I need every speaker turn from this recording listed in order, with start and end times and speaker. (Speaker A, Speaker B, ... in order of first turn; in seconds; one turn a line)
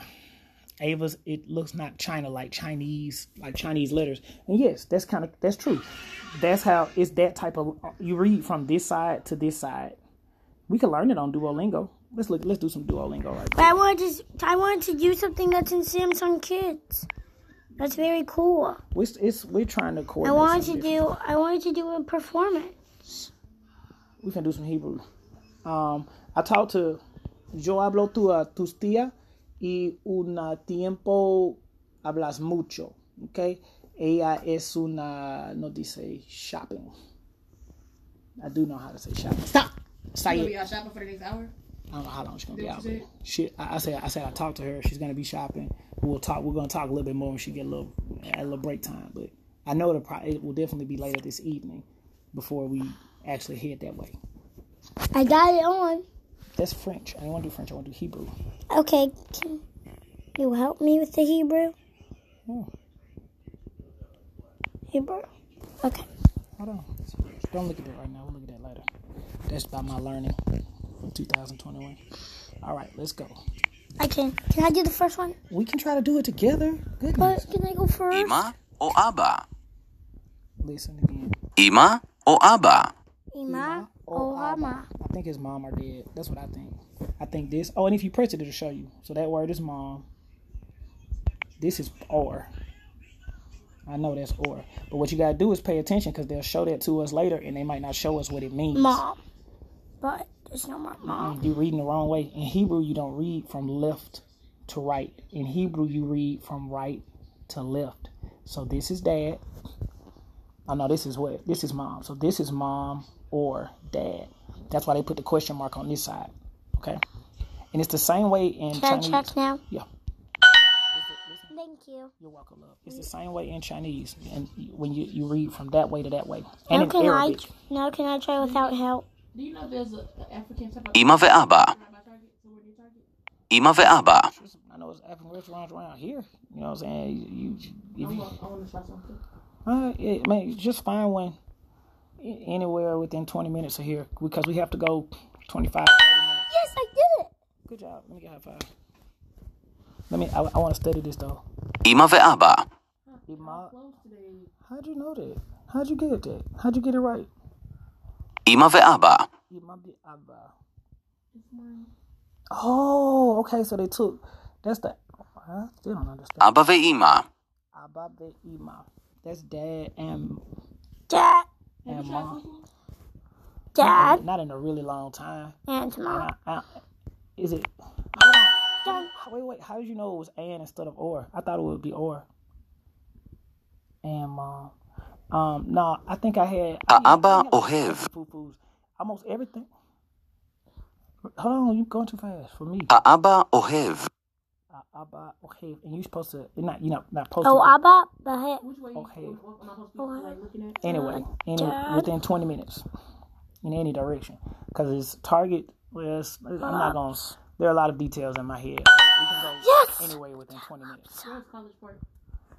Speaker A: 0.8-10.0
Speaker A: 10.7-13.7
Speaker B: 13.6-17.1
Speaker B: 17.8-18.8
Speaker A: 18.9-21.1
Speaker B: 20.2-23.3
Speaker A: 24.2-25.0
Speaker A: 25.6-27.0
Speaker A: 27.5-36.9
Speaker A: 38.4-40.6
Speaker C: 40.3-41.5
Speaker A: 41.9-54.2
Speaker C: 42.5-43.0
Speaker B: 55.1-56.0
Speaker A: 56.5-58.3
Speaker B: 58.7-59.6
Speaker B: 60.4-61.7
Speaker B: 64.9-65.3
Speaker A: 66.6-66.9
Speaker A: 67.5-68.8
Speaker A: 69.5-70.4
Speaker A: 71.1-72.0
Speaker A: 72.6-73.4
Speaker B: 74.0-75.3
Speaker A: 75.5-77.4
Speaker B: 77.2-78.5
Speaker D: 78.1-79.4
Speaker A: 80.6-81.3
Speaker D: 81.6-82.9
Speaker B: 83.3-84.9
Speaker A: 83.5-90.0
Speaker A: 91.6-92.5
Speaker A: 93.9-99.0
Speaker B: 98.7-99.2
Speaker B: 100.0-101.4
Speaker A: 101.0-109.4
Speaker A: 110.7-117.0
Speaker A: 117.7-119.8
Speaker B: 118.7-119.6
Speaker A: 120.9-121.5
Speaker B: 121.5-122.1
Speaker A: 122.2-127.5
Speaker B: 126.7-129.1
Speaker C: 128.4-128.8
Speaker C: 129.3-133.1
Speaker D: 130.9-131.7
Speaker D: 133.5-134.3
Speaker A: 134.2-138.3
Speaker C: 138.0-139.2
Speaker A: 139.7-141.3
Speaker A: 142.2-146.5
Speaker B: 146.5-147.3
Speaker A: 147.7-148.7
Speaker A: 150.1-151.4
Speaker D: 151.8-152.7
Speaker C: 153.1-154.5
Speaker A: 153.3-153.7
Speaker A: 154.7-157.3
Speaker D: 158.4-159.3
Speaker A: 159.5-160.5
Speaker C: 161.3-161.9
Speaker A: 162.5-166.5
Speaker D: 166.4-167.3
Speaker A: 167.7-170.4
Speaker B: 171.1-171.4
Speaker C: 171.8-172.7
Speaker A: 171.9-172.4
Speaker B: 173.8-174.2
Speaker A: 173.8-175.6
Speaker B: 175.7-176.3
Speaker A: 176.1-176.7
Speaker A: 177.4-182.2
Speaker A: 184.0-184.7
Speaker A: 185.3-189.7
Speaker D: 186.9-188.1
Speaker A: 191.3-192.9
Speaker D: 192.9-194.1
Speaker A: 194.7-197.8
Speaker B: 197.4-198.7
Speaker C: 198.6-200.8
Speaker A: 198.9-199.4
Speaker B: 200.0-202.1
Speaker A: 200.8-202.8
Speaker A: 203.6-211.2
Speaker B: 206.6-206.9
Speaker B: 209.6-210.2
Speaker C: 211.2-212.0